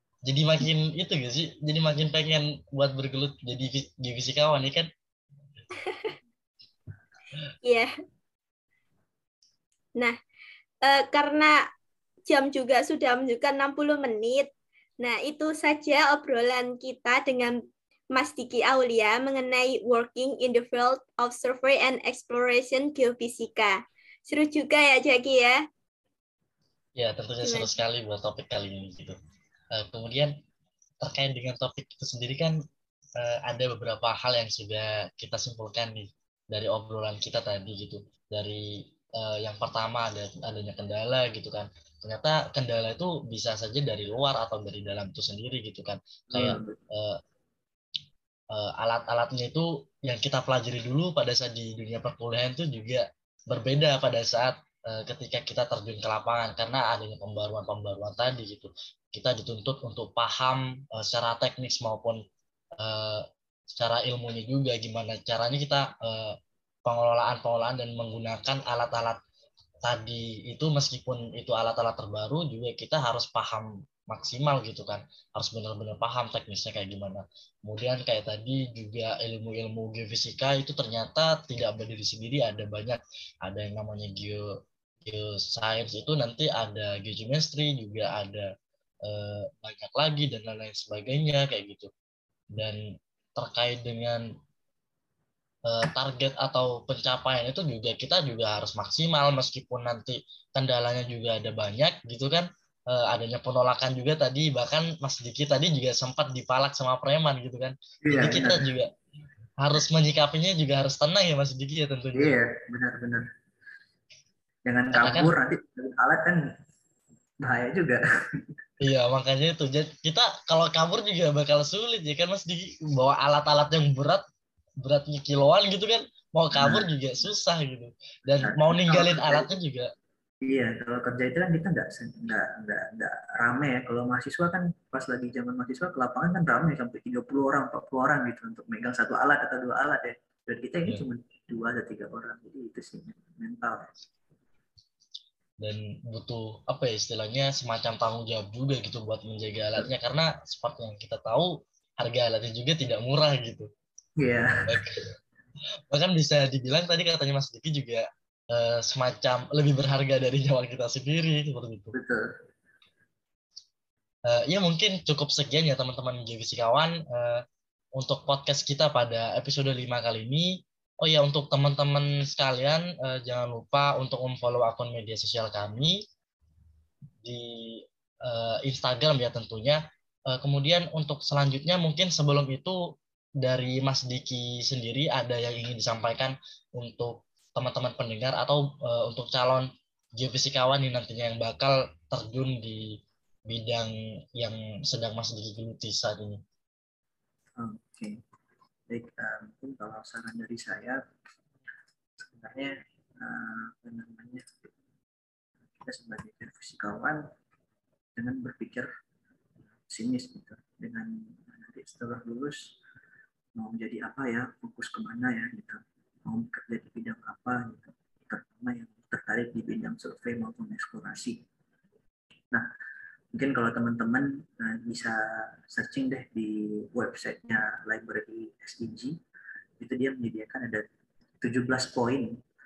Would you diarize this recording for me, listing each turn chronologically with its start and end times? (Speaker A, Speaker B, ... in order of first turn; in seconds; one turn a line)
Speaker A: 0.2-4.9
Speaker B: 5.8-6.2
Speaker B: 7.6-7.9
Speaker B: 10.8-11.6
Speaker B: 12.3-17.6
Speaker B: 18.1-25.6
Speaker A: 26.9-29.1
Speaker B: 27.4-27.7
Speaker A: 29.7-30.4
Speaker A: 31.0-32.6
Speaker A: 33.2-47.2
Speaker C: 46.3-46.8
Speaker A: 48.5-62.2
Speaker A: 62.8-69.2
Speaker A: 69.8-88.5
Speaker A: 89.0-91.9
Speaker A: 92.5-94.3
Speaker A: 95.6-108.9
Speaker C: 108.0-108.7
Speaker A: 109.6-112.4
Speaker C: 112.1-113.3
Speaker C: 114.7-116.5
Speaker A: 114.9-115.3
Speaker C: 117.4-118.5
Speaker A: 118.8-124.2
Speaker A: 124.8-129.9
Speaker C: 126.5-126.9
Speaker C: 128.4-129.5
Speaker C: 130.4-143.9
Speaker A: 145.6-153.7
Speaker C: 154.2-154.9
Speaker A: 154.7-155.0
Speaker A: 155.9-161.9
Speaker C: 161.9-162.3
Speaker A: 164.3-167.4
Speaker A: 167.9-176.0
Speaker A: 177.2-196.4
Speaker C: 197.6-198.2
Speaker C: 198.9-201.0
Speaker C: 202.2-204.7
Speaker C: 205.8-207.2
Speaker C: 208.2-208.9
Speaker C: 209.8-212.7
Speaker C: 213.6-221.4
Speaker C: 223.3-229.2
Speaker C: 229.8-230.9
Speaker C: 231.4-232.3